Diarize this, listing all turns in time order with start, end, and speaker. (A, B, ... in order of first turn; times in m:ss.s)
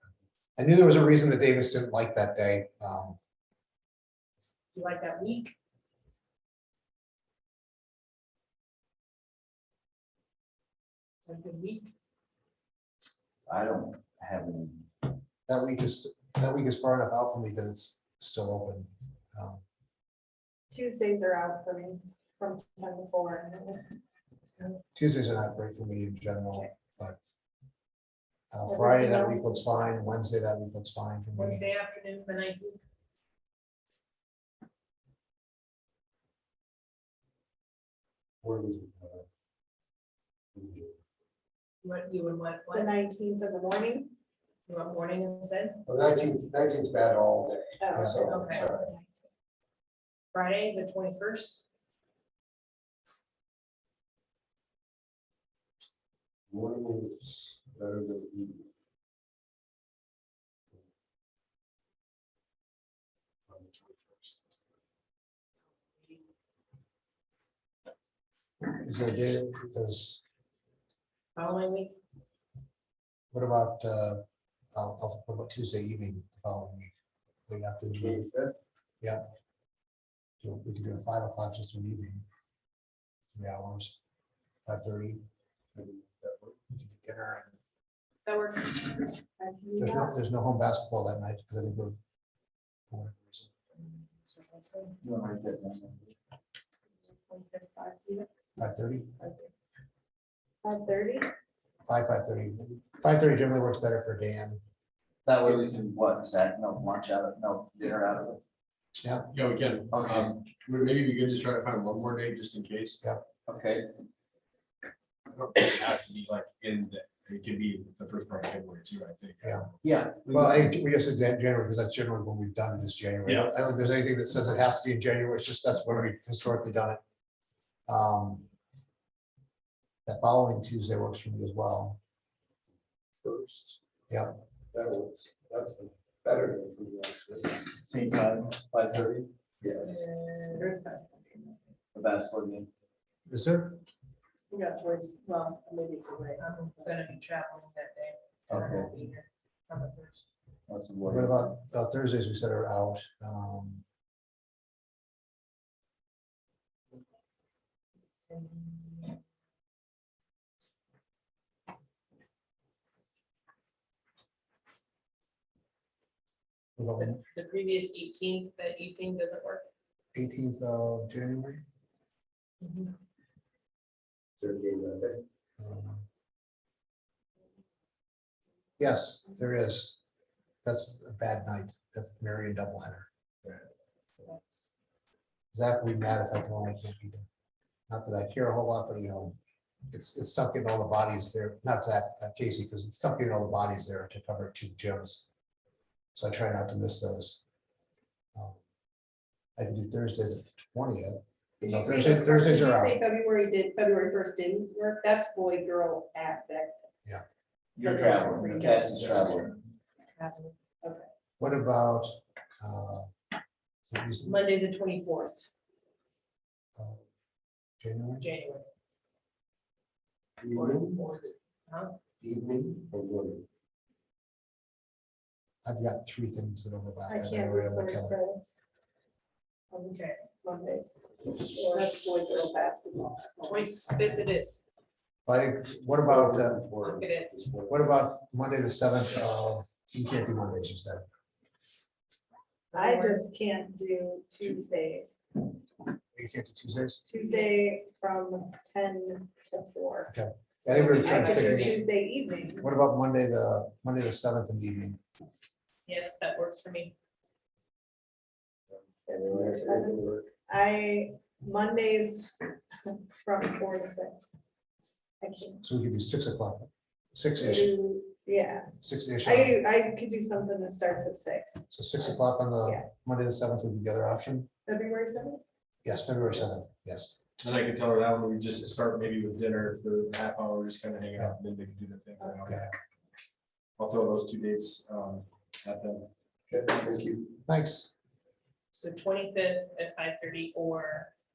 0:00.6-0:03.2 A
0:04.7-0:05.5 B
0:11.2-0:11.9 B
0:13.4-0:15.1 C
0:15.5-0:19.6 A
0:20.7-0:23.9 D
0:24.6-0:27.2 A
0:28.5-0:31.7 A
0:28.6-0:30.1 D
0:31.3-0:32.8 B
0:38.4-0:39.2 E
0:40.5-0:40.9 E
0:41.8-0:42.9 B
0:42.7-0:44.1 D
0:44.7-0:45.8 B
0:45.8-0:48.9 E
0:47.8-0:49.2 D
0:48.0-0:48.3 A
0:48.3-0:48.7 B
0:50.3-0:51.6 B
0:56.5-0:58.7 E
1:03.5-1:04.4 E
1:08.8-1:10.2 A
1:11.4-1:12.0 B
1:13.3-1:16.9 A
1:17.5-1:18.2 A
1:17.9-1:18.6 E
1:19.0-1:19.3 A
1:20.4-1:22.2 A
1:23.3-1:24.0 A
1:24.6-1:25.2 A
1:25.7-1:26.6 E
1:26.7-1:27.6 A
1:28.2-1:29.1 B
1:29.4-1:30.2 D
1:29.8-1:32.0 A
1:32.9-1:33.5 A
1:33.8-1:34.8 B
1:35.0-1:36.1 C
1:37.1-1:38.2 D
1:38.6-1:39.1 A
1:39.2-1:39.5 D
1:40.6-1:41.3 D
1:41.8-1:44.6 A
1:45.2-1:48.4 C
1:49.0-1:49.3 A
1:49.3-1:53.0 F
1:49.9-1:50.4 C
1:53.4-1:53.9 C
1:55.3-1:59.7 F
1:59.8-2:00.7 C
2:00.3-2:07.0 A
2:03.2-2:03.5 F
2:07.9-2:08.5 A
2:10.0-2:12.0 A
2:13.2-2:13.8 E
2:14.1-2:14.4 A
2:14.7-2:17.7 E
2:17.8-2:19.3 C
2:19.6-2:20.1 E
2:19.9-2:20.7 B
2:20.5-2:21.6 D
2:21.9-2:22.7 C
2:23.2-2:23.8 A
2:24.5-2:26.9 D
2:26.4-2:30.2 B
2:28.5-2:28.9 C
2:30.7-2:31.5 C
2:31.1-2:33.8 A
2:38.3-2:39.2 B
2:46.8-2:47.2 A
2:47.0-2:49.7 B
2:50.1-2:51.6 A
2:52.6-2:52.9 B
2:54.4-2:55.2 E
2:55.6-2:56.0 A
2:58.8-3:00.0 A
3:00.6-3:03.1 A
3:04.3-3:04.5 B
3:05.5-3:07.2 A
3:07.9-3:09.4 A
3:09.9-3:15.2 A
3:16.1-3:17.4 A
3:18.3-3:18.6 A
3:19.6-3:23.0 A
3:21.6-3:26.8 D
3:27.8-3:29.5 C
3:27.8-3:28.8 D
3:30.2-3:30.5 B
3:31.4-3:33.1 A
3:33.9-3:34.4 A
3:34.2-3:35.5 B
3:36.8-3:37.0 A
3:37.8-3:38.3 A
3:38.2-3:38.7 B
3:40.4-3:41.1 E
3:40.5-3:41.0 B
3:42.2-3:43.4 E
3:45.6-3:48.2 A
3:47.1-3:48.6 D
3:49.7-3:50.2 B
3:50.4-3:53.7 D
3:51.6-3:51.9 B
3:53.4-3:54.6 B
3:55.2-3:56.6 A
3:55.9-3:57.9 E
3:56.8-3:57.3 B
3:57.7-4:01.0 A
4:02.7-4:03.2 B
4:02.7-4:05.2 D
4:06.1-4:07.0 A
4:07.1-4:10.1 D
4:07.2-4:07.5 B
4:10.1-4:11.8 A
4:10.6-4:11.8 B
4:10.7-4:12.7 D
4:12.6-4:15.0 A
4:15.8-4:16.9 B
4:19.1-4:22.3 D
4:19.2-4:20.3 E
4:22.8-4:24.4 D
4:25.2-4:25.6 D
4:25.6-4:27.7 A
4:27.4-4:32.9 D
4:28.8-4:29.6 A
4:31.7-4:34.5 A
4:34.6-4:35.4 D
4:35.8-4:37.2 A
4:37.4-4:42.7 F
4:42.5-4:42.7 A
4:43.8-4:46.1 F
4:46.5-4:47.4 E
4:47.4-4:47.9 A
4:48.7-4:51.1 B